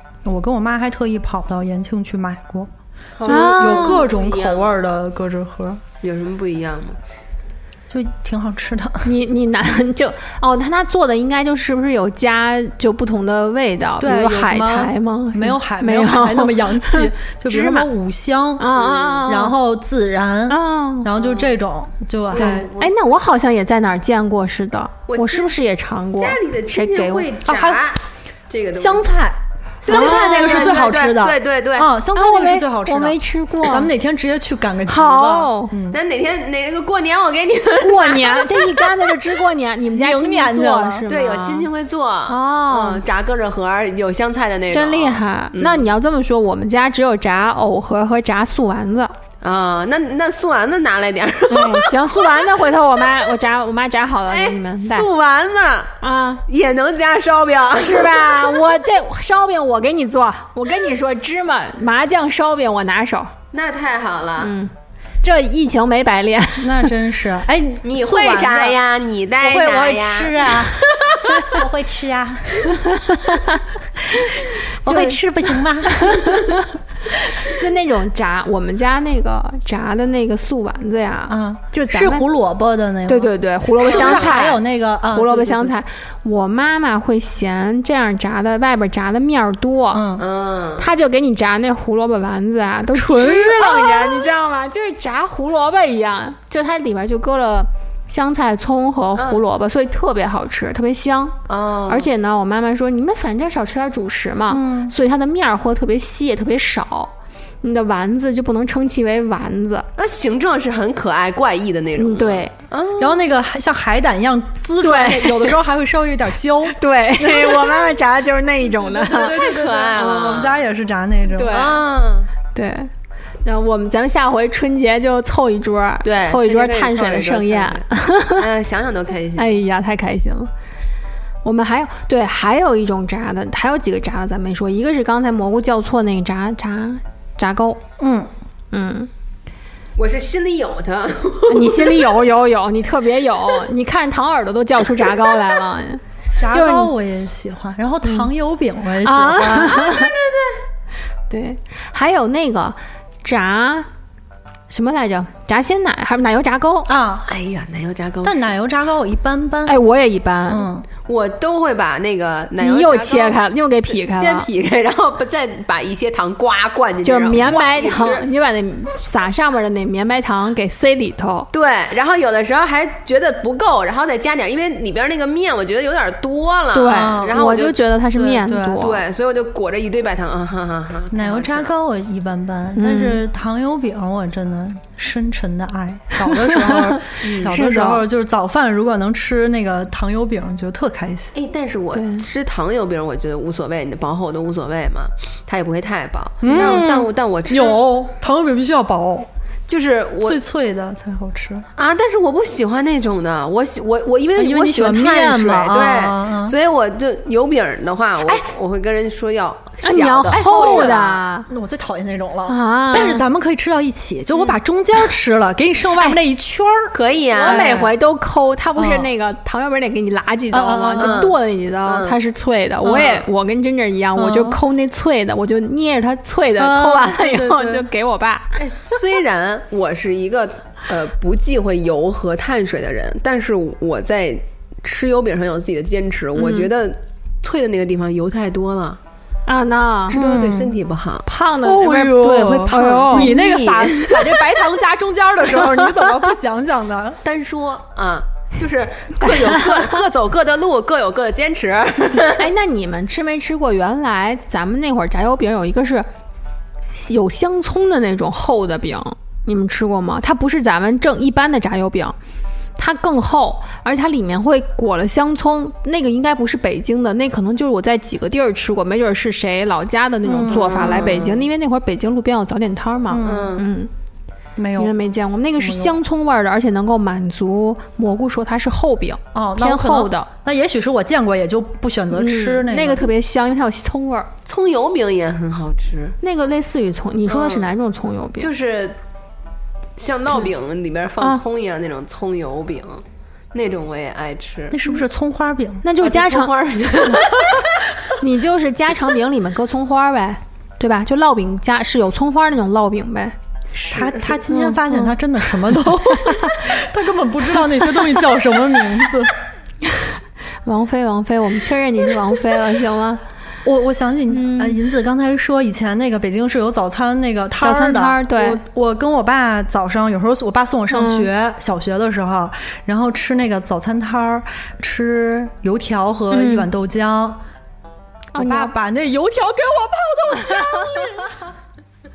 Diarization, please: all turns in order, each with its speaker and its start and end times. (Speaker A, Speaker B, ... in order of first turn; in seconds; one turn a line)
Speaker A: 0.2-2.7
Speaker B: 3.2-4.8
Speaker A: 3.2-5.8
Speaker C: 3.3-4.0
Speaker B: 6.0-7.0
Speaker A: 7.9-9.1
Speaker C: 9.0-17.9
Speaker A: 14.0-18.7
Speaker C: 18.6-19.5
Speaker B: 18.8-19.3
Speaker A: 19.3-22.7
Speaker C: 20.5-21.1
Speaker B: 21.2-21.5
Speaker B: 22.3-22.9
Speaker C: 22.4-27.3
Speaker B: 25.1-25.5
Speaker B: 26.1-29.1
Speaker A: 27.5-27.8
Speaker C: 28.8-29.3
Speaker B: 29.8-31.9
Speaker A: 29.8-36.0
Speaker C: 29.9-30.7
Speaker C: 32.1-33.9
Speaker C: 34.9-35.7
Speaker B: 35.9-39.2
Speaker C: 37.8-41.7
Speaker A: 39.9-41.0
Speaker B: 41.1-45.9
Speaker C: 42.3-43.0
Speaker C: 44.7-49.1
Speaker B: 49.4-52.5
Speaker C: 51.5-55.1
Speaker B: 54.3-58.5
Speaker C: 56.0-56.5
Speaker C: 57.8-63.3
Speaker B: 63.5-64.5
Speaker C: 64.4-66.9
Speaker A: 66.6-68.8
Speaker B: 67.8-71.5
Speaker A: 69.4-72.7
Speaker C: 72.9-73.6
Speaker C: 74.8-75.2
Speaker A: 74.8-76.2
Speaker C: 76.0-76.7
Speaker C: 77.4-82.3
Speaker A: 81.3-85.7
Speaker C: 83.1-90.0
Speaker B: 83.9-84.3
Speaker A: 89.9-90.2
Speaker B: 90.2-90.9
Speaker C: 90.8-101.4
Speaker A: 92.9-94.3
Speaker B: 99.2-99.4
Speaker B: 101.5-102.1
Speaker C: 101.9-109.9
Speaker A: 104.5-104.9
Speaker B: 110.0-113.2
Speaker C: 112.0-112.5
Speaker A: 113.0-117.9
Speaker C: 114.8-115.6
Speaker C: 116.7-119.4
Speaker A: 118.8-121.6
Speaker B: 119.2-120.6
Speaker C: 121.3-121.8
Speaker B: 121.4-122.3
Speaker C: 122.5-122.9
Speaker C: 123.5-128.4
Speaker B: 126.0-129.6
Speaker C: 129.4-130.5
Speaker C: 131.4-137.8
Speaker A: 138.0-138.3
Speaker C: 138.7-139.1
Speaker B: 140.0-142.1
Speaker C: 141.5-146.9
Speaker A: 146.4-149.8
Speaker C: 149.0-150.1
Speaker B: 149.8-150.6
Speaker C: 151.3-153.9
Speaker C: 154.7-156.9
Speaker A: 156.9-157.3
Speaker B: 157.3-158.5
Speaker A: 158.2-159.8
Speaker C: 159.7-160.7
Speaker A: 160.5-160.9
Speaker B: 161.1-168.3
Speaker C: 162.6-164.5
Speaker C: 167.0-171.5
Speaker B: 171.5-177.8
Speaker C: 176.7-179.0
Speaker A: 176.9-177.4
Speaker A: 178.1-178.8
Speaker B: 178.8-181.7
Speaker A: 181.1-191.4
Speaker C: 182.8-183.2
Speaker C: 186.3-188.0
Speaker B: 187.2-187.5
Speaker B: 191.3-197.8
Speaker C: 191.9-192.2
Speaker A: 196.4-199.3
Speaker B: 199.7-200.4
Speaker A: 200.2-201.7
Speaker B: 201.8-211.2
Speaker A: 204.4-206.5
Speaker C: 209.8-211.5
Speaker A: 210.4-210.9
Speaker A: 211.5-217.9
Speaker C: 212.5-213.2
Speaker B: 216.9-217.7
Speaker C: 217.4-228.6
Speaker A: 218.8-219.1
Speaker A: 220.5-221.3
Speaker B: 221.0-222.2
Speaker A: 222.8-223.2
Speaker A: 224.2-224.6
Speaker A: 226.6-227.8
Speaker B: 228.6-239.0
Speaker C: 236.4-236.7
Speaker C: 239.5-240.2
Speaker B: 240.1-241.3
Speaker A: 240.1-240.8
Speaker C: 241.2-243.3
Speaker A: 241.6-247.2
Speaker B: 242.7-244.2
Speaker B: 247.2-252.5
Speaker C: 249.2-250.0
Speaker C: 252.2-256.1
Speaker C: 256.9-262.2
Speaker C: 262.8-273.9
Speaker A: 270.3-271.2
Speaker B: 270.5-271.4
Speaker A: 273.1-273.5
Speaker B: 273.2-273.7
Speaker A: 274.6-274.9
Speaker C: 274.8-280.3
Speaker A: 275.6-276.0
Speaker A: 279.3-283.1
Speaker C: 282.1-284.3
Speaker B: 284.5-286.2
Speaker C: 286.2-288.5
Speaker B: 287.3-287.7
Speaker B: 288.4-289.0
Speaker B: 290.0-294.8
Speaker A: 294.7-295.9
Speaker C: 295.8-296.5
Speaker B: 296.0-297.9
Speaker C: 298.2-303.4
Speaker B: 303.8-304.4
Speaker A: 303.9-309.3
Speaker C: 304.5-305.0
Speaker C: 310.6-313.2
Speaker A: 313.6-327.4
Speaker C: 314.3-314.8
Speaker C: 317.6-318.6
Speaker C: 320.9-321.3
Speaker C: 326.3-326.7
Speaker C: 328.3-328.8
Speaker A: 328.4-331.3